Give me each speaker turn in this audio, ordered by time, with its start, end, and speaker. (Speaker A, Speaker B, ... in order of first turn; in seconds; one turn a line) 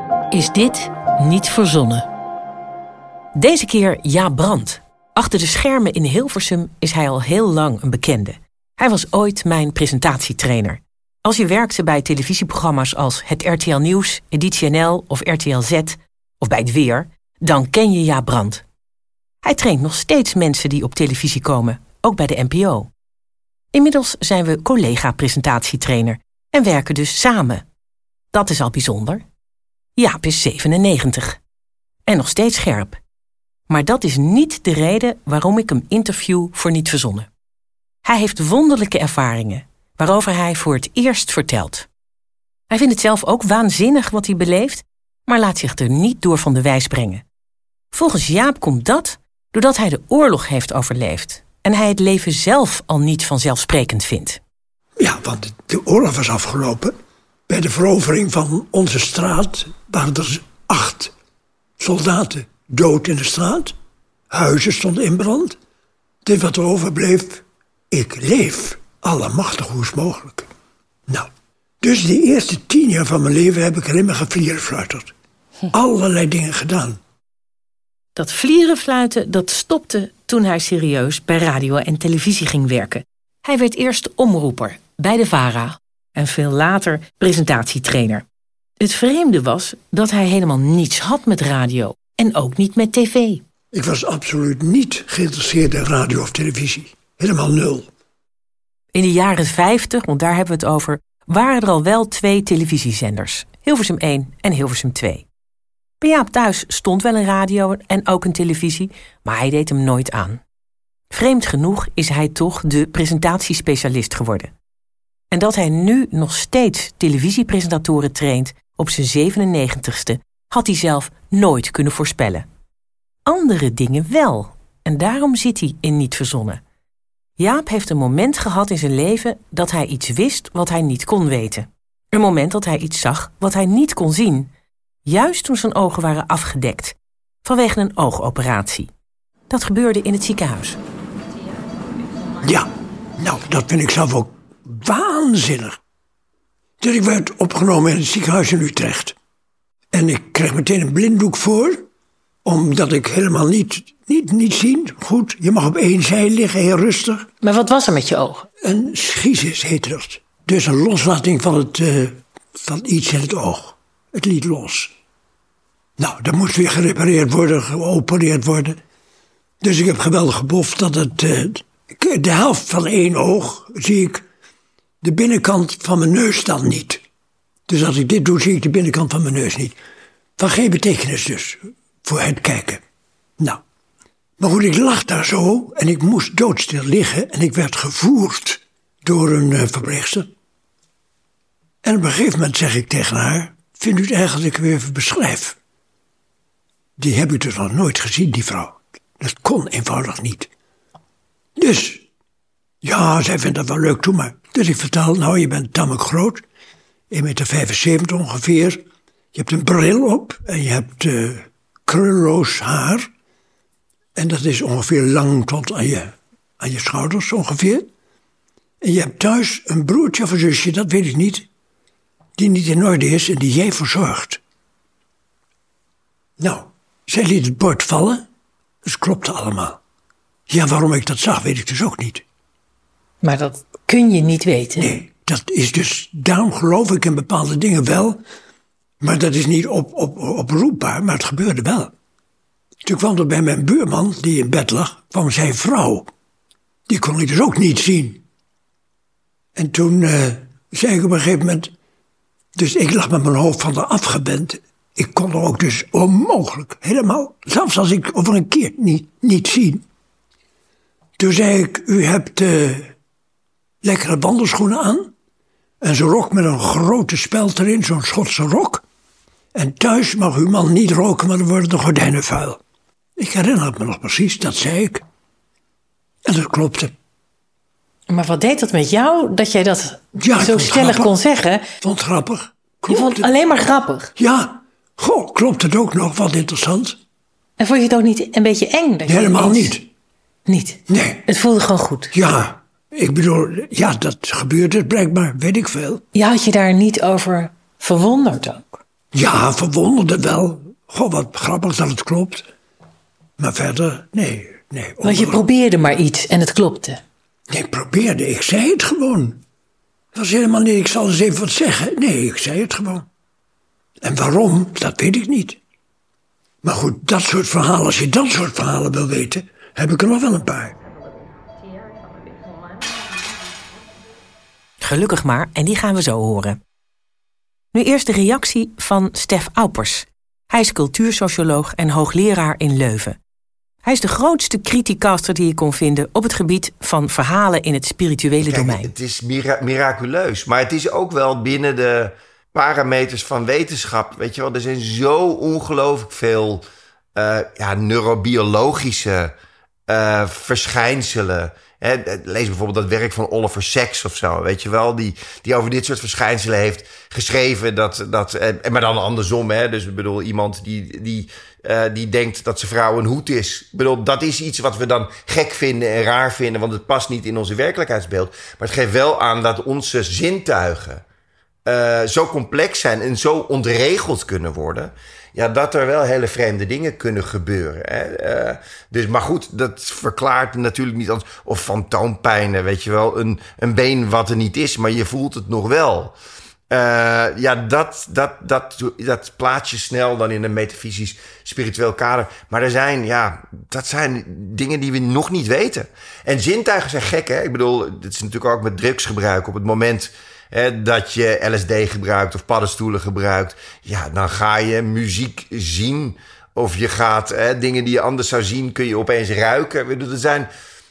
Speaker A: 0.3-2.1
Speaker A: 3.4-18.6
Speaker A: 19.4-22.9
Speaker A: 23.7-27.6
Speaker A: 28.3-29.2
Speaker A: 30.0-31.4
Speaker A: 32.1-33.0
Speaker A: 33.7-37.3
Speaker A: 38.0-41.9
Speaker A: 42.7-47.2
Speaker A: 47.9-54.4
Speaker B: 55.0-56.9
Speaker B: 57.5-61.1
Speaker B: 61.8-63.8
Speaker B: 64.3-65.6
Speaker B: 66.2-70.5
Speaker B: 71.8-75.1
Speaker B: 75.7-77.0
Speaker A: 78.2-88.2
Speaker A: 88.8-93.4
Speaker B: 93.7-97.9
Speaker A: 98.9-105.3
Speaker A: 106.0-110.4
Speaker A: 111.1-114.5
Speaker A: 115.3-122.5
Speaker A: 123.3-126.6
Speaker A: 127.4-134.5
Speaker A: 135.1-138.9
Speaker A: 139.5-140.8
Speaker B: 142.4-145.8
Speaker B: 146.8-149.2
Speaker B: 149.9-151.9
Speaker B: 152.4-157.3
Speaker A: 157.4-158.5
Speaker B: 158.6-164.9
Speaker B: 166.0-168.8
Speaker B: 169.6-174.3
Speaker B: 175.0-177.0
Speaker B: 177.7-179.8
Speaker B: 180.4-182.8
Speaker B: 184.4-190.3
Speaker B: 191.8-195.6
Speaker B: 197.0-200.5
Speaker B: 201.6-202.1
Speaker B: 202.8-206.4
Speaker B: 207.1-208.8
Speaker B: 209.3-213.1
Speaker B: 214.2-217.9
Speaker B: 218.8-221.5
Speaker B: 222.4-224.4
Speaker B: 226.4-228.3
Speaker B: 228.8-229.8
Speaker B: 230.5-232.2
Speaker A: 233.2-234.9
Speaker B: 234.8-238.2
Speaker B: 239.0-241.9
Speaker B: 242.8-246.1
Speaker B: 246.9-248.2
Speaker B: 249.6-251.7
Speaker B: 252.6-259.9
Speaker B: 261.2-262.9
Speaker B: 263.8-265.1
Speaker B: 265.8-268.8
Speaker B: 269.6-272.6
Speaker B: 273.2-275.0
Speaker B: 276.3-276.9
Speaker A: 278.1-281.6
Speaker B: 280.1-281.1
Speaker B: 281.8-283.3
Speaker A: 282.9-284.1
Speaker B: 284.2-287.0
Speaker A: 287.6-289.8
Speaker B: 289.1-289.9
Speaker A: 290.5-292.1
Speaker B: 290.9-291.2
Speaker B: 292.1-296.0
Speaker A: 296.1-298.8
Speaker B: 299.1-302.5
Speaker B: 303.4-305.4
Speaker A: 305.0-307.0
Speaker B: 307.5-309.4
Speaker B: 310.1-313.1
Speaker B: 314.0-315.6
Speaker B: 316.6-320.8
Speaker A: 324.8-326.6
Speaker A: 327.7-333.2
Speaker A: 333.8-338.9
Speaker C: 338.5-349.3
Speaker C: 349.9-371.0
Speaker C: 371.6-386.2
Speaker C: 386.7-410.5